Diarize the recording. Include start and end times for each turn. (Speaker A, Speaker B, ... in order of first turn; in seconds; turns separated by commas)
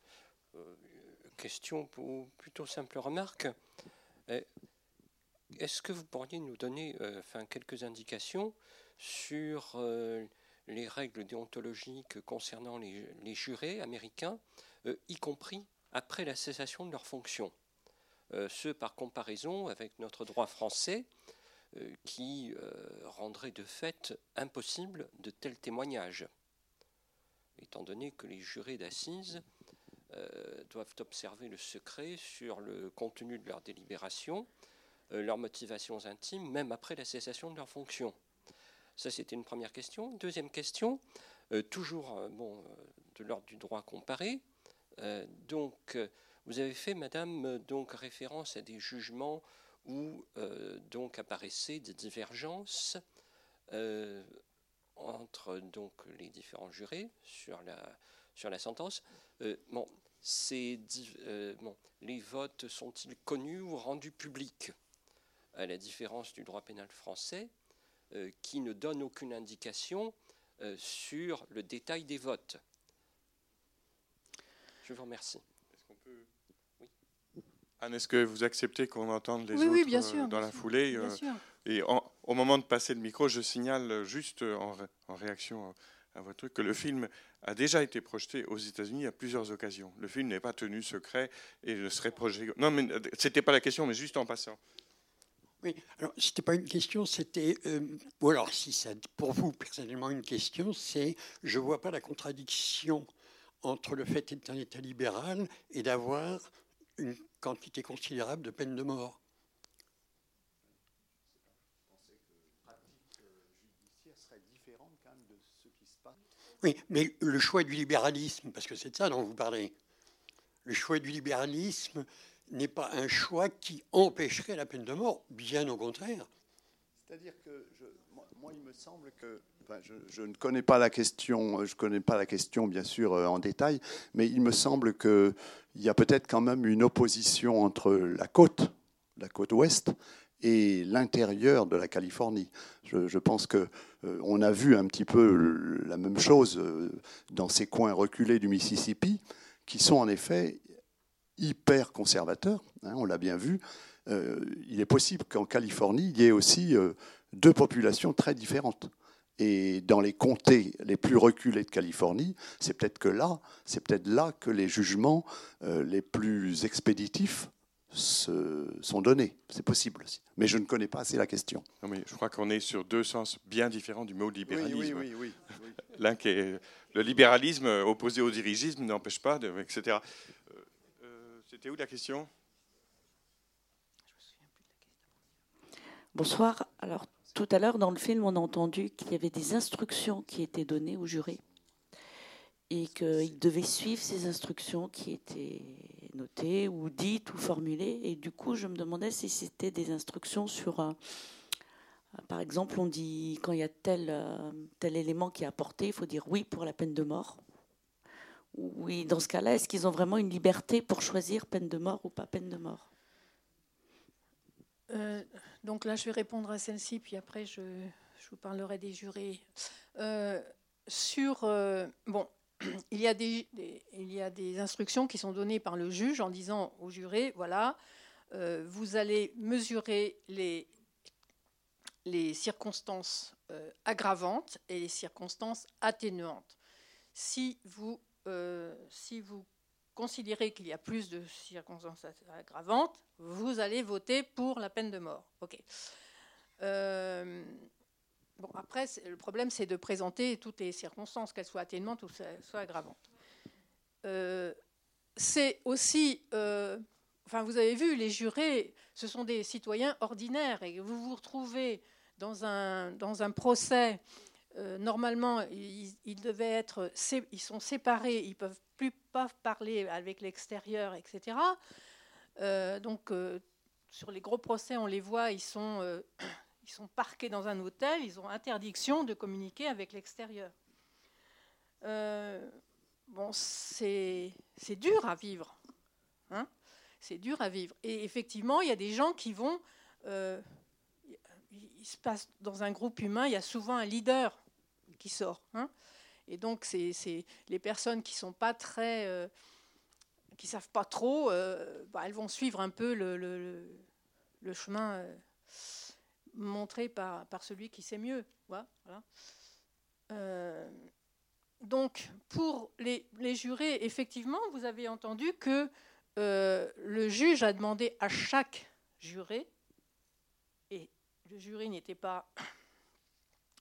Speaker A: 0.5-3.6, Speaker A: 5.5-17.5, Speaker A: 18.3-21.1, Speaker A: 21.7-26.3, Speaker A: 27.6-29.4, Speaker A: 30.1-34.5, Speaker A: 35.1-38.2, Speaker A: 39.0-44.4, Speaker A: 45.0-53.0, Speaker A: 53.7-54.4, Speaker A: 55.0-64.8, Speaker A: 65.5-67.5, Speaker A: 68.1-72.6, Speaker A: 74.8-75.4, Speaker B: 75.9-76.2, Speaker B: 77.8-94.6, Speaker C: 79.5-81.4, Speaker D: 95.6-103.1, Speaker D: 103.6-109.2, Speaker E: 111.9-116.1, Speaker D: 116.6-119.7, Speaker D: 120.6-126.3, Speaker E: 127.0-150.6, Speaker E: 151.4-171.7, Speaker B: 171.8-175.1, Speaker E: 174.5-175.8, Speaker B: 175.9-182.3, Speaker F: 186.1-191.4, Speaker F: 192.7-201.0, Speaker F: 202.2-207.4, Speaker F: 208.5-212.9, Speaker C: 214.9-227.8, Speaker C: 228.3-230.7, Speaker C: 232.0-236.6, Speaker C: 237.1-245.6, Speaker C: 246.6-247.7, Speaker C: 248.4-253.0, Speaker C: 254.0-254.6, Speaker C: 255.2-264.0, Speaker C: 264.5-271.6, Speaker C: 272.4-280.5, Speaker C: 281.8-285.6, Speaker C: 287.0-290.5, Speaker C: 291.1-294.4, Speaker C: 295.0-295.7, Speaker C: 296.3-299.3, Speaker C: 300.4-303.8, Speaker C: 304.4-309.0, Speaker C: 310.1-310.9, Speaker C: 311.6-319.5, Speaker C: 320.7-322.3